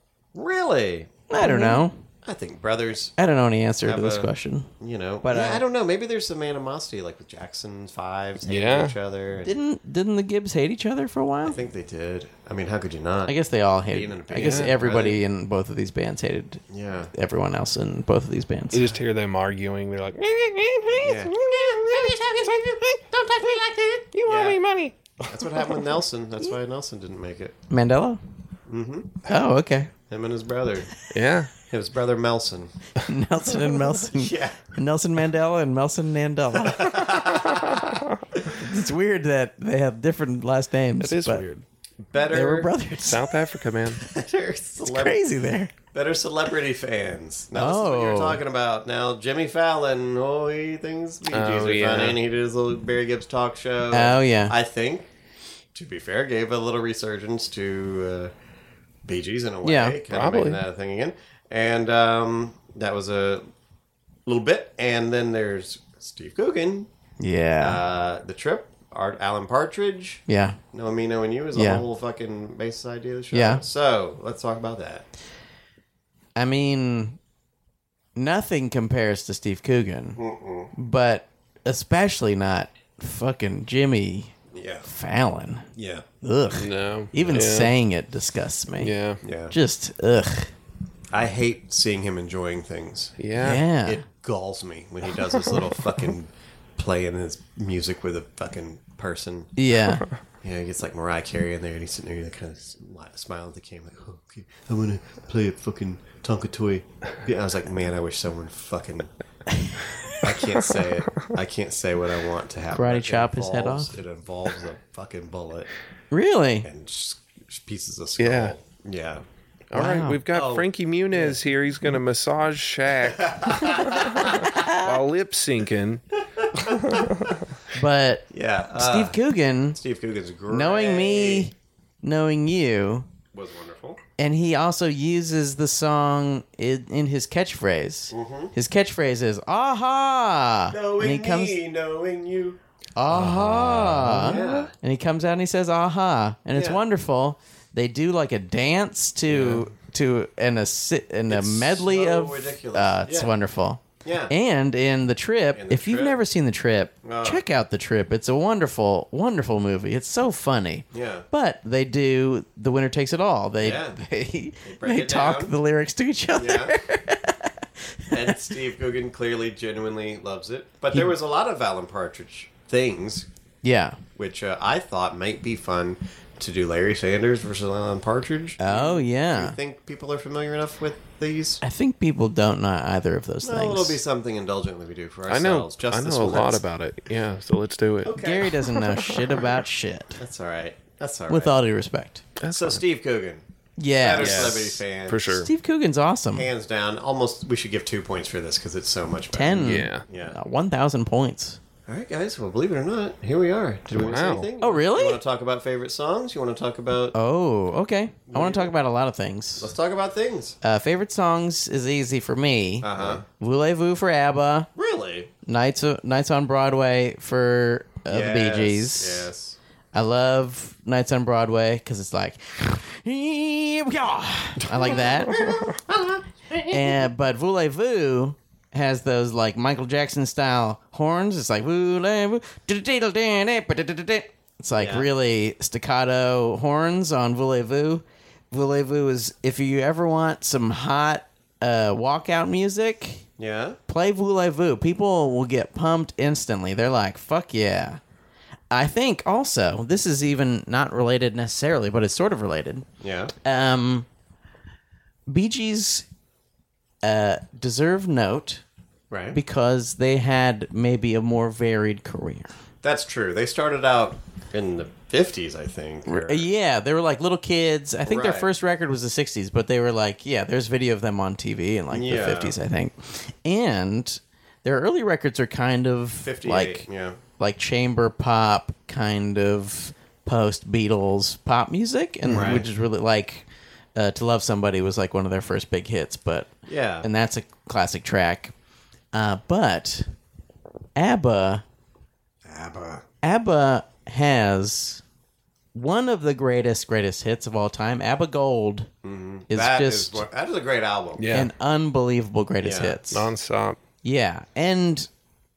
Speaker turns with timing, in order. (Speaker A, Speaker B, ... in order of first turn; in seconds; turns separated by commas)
Speaker A: 0.3-3.1, Speaker B: 1.3-1.9, Speaker B: 3.2-4.7, Speaker A: 3.8-9.5, Speaker B: 5.2-5.6, Speaker C: 8.4-8.9, Speaker B: 9.4-11.6, Speaker A: 11.4-15.2, Speaker B: 13.2-16.6, Speaker C: 14.3-14.7, Speaker A: 16.7-17.1, Speaker B: 17.1-18.9, Speaker C: 18.7-22.9, Speaker A: 21.0-24.6, Speaker C: 24.1-25.8, Speaker A: 25.2-27.6, Speaker B: 27.7-28.2, Speaker A: 28.7-29.2, Speaker B: 29.2-29.9, Speaker A: 30.1-30.9, Speaker C: 31.1-31.5, Speaker A: 31.6-32.7, Speaker B: 33.0-37.2, Speaker A: 34.1-34.7, Speaker A: 36.5-38.5, Speaker B: 38.5-41.5, Speaker C: 41.0-41.6, Speaker A: 42.0-42.7, Speaker B: 42.3-43.2, Speaker C: 43.0-44.0, Speaker A: 44.0-45.2, Speaker B: 44.8-45.7, Speaker A: 45.9-55.1, Speaker B: 47.5-48.4, Speaker C: 51.3-52.2, Speaker B: 53.9-54.5, Speaker A: 55.7-58.3, Speaker A: 59.0-63.5, Speaker B: 59.6-60.0, Speaker C: 60.1-60.6, Speaker A: 64.2-66.9, Speaker B: 67.2-67.8, Speaker A: 67.6-75.1, Speaker B: 70.3-70.6, Speaker B: 71.5-71.8, Speaker B: 73.3-73.6, Speaker B: 76.3-77.2, Speaker B: 78.2-80.2, Speaker A: 80.2-80.7, Speaker B: 80.7-84.3, Speaker A: 84.5-84.9, Speaker B: 84.8-85.7, Speaker A: 85.7-86.0, Speaker B: 86.2-88.9, Speaker C: 86.6-87.7, Speaker C: 88.8-89.2, Speaker A: 89.2-89.5, Speaker B: 89.5-90.5, Speaker A: 91.1-93.2, Speaker C: 93.2-93.6, Speaker B: 93.4-94.0, Speaker A: 93.8-99.5, Speaker B: 99.6-100.0, Speaker A: 100.4-109.1, Speaker B: 109.5-109.9, Speaker A: 110.2-115.7, Speaker B: 112.7-113.9, Speaker B: 116.1-116.7, Speaker A: 116.6-119.2, Speaker C: 118.2-118.5, Speaker C: 119.7-126.0, Speaker B: 119.7-120.2, Speaker A: 120.3-121.4, Speaker A: 123.2-124.3, Speaker B: 124.5-125.0, Speaker A: 126.4-127.3, Speaker C: 126.7-127.3, Speaker B: 127.7-129.8, Speaker A: 128.3-129.2, Speaker A: 129.7-131.5, Speaker B: 130.5-133.1, Speaker A: 133.3-134.0, Speaker B: 134.2-141.6, Speaker A: 138.1-138.5, Speaker A: 140.7-144.7, Speaker B: 142.9-168.4, Speaker C: 144.0-144.3, Speaker A: 146.5-146.8, Speaker C: 149.3-149.7, Speaker A: 151.3-153.3, Speaker A: 154.0-154.3, Speaker A: 155.5-156.2, Speaker A: 157.0-157.4, Speaker A: 160.9-161.2, Speaker A: 163.6-164.0, Speaker A: 164.6-165.6, Speaker A: 166.3-166.8, Speaker A: 168.1-173.3, Speaker B: 173.6-174.0, Speaker A: 174.2-181.6, Speaker B: 178.6-179.6, Speaker B: 181.6-184.0, Speaker A: 183.4-186.6, Speaker C: 185.3-189.3, Speaker A: 188.0-188.5, Speaker B: 188.1-190.2, Speaker A: 190.2-191.6, Speaker B: 191.3-192.2, Speaker C: 192.4-192.8, Speaker A: 192.5-193.4, Speaker B: 193.8-194.8, Speaker A: 194.0-195.4, Speaker C: 194.2-195.5, Speaker B: 195.4-196.5, Speaker A: 196.3-200.4, Speaker B: 199.3-201.6, Speaker C: 199.6-200.0, Speaker A: 201.9-207.2, Speaker C: 203.9-204.5, Speaker B: 204.6-205.2, Speaker B: 207.1-209.7, Speaker A: 208.3-208.7, Speaker A: 209.6-210.6, Speaker B: 210.6-214.7, Speaker A: 212.8-213.2, Speaker A: 214.8-215.3, Speaker B: 215.4-219.3, Speaker A: 218.1-219.6, Speaker B: 219.9-225.5, Speaker A: 224.6-227.1, Speaker B: 226.7-243.2, Speaker A: 234.7-235.1, Speaker A: 243.4-243.8, Speaker B: 243.9-248.0, Speaker B: 248.7-252.8, Speaker A: 253.0-253.3, Speaker B: 253.4-254.1, Speaker B: 255.3-256.1, Speaker B: 257.0-258.6, Speaker A: 259.1-259.4, Speaker B: 259.3-262.5, Speaker A: 262.8-266.5, Speaker B: 266.1-276.9, Speaker A: 268.1-268.5, Speaker A: 271.9-272.6, Speaker A: 276.2-277.2, Speaker B: 277.4-288.5, Speaker A: 282.3-282.7, Speaker A: 286.7-287.1, Speaker B: 289.1-290.1, Speaker B: 290.9-291.6, Speaker A: 292.4-293.0, Speaker B: 293.2-295.0, Speaker B: 295.7-298.9, Speaker A: 299.0-301.3, Speaker B: 299.5-300.2, Speaker C: 301.2-301.5, Speaker B: 301.3-303.3, Speaker A: 302.6-303.0, Speaker C: 303.1-303.8, Speaker B: 304.0-305.1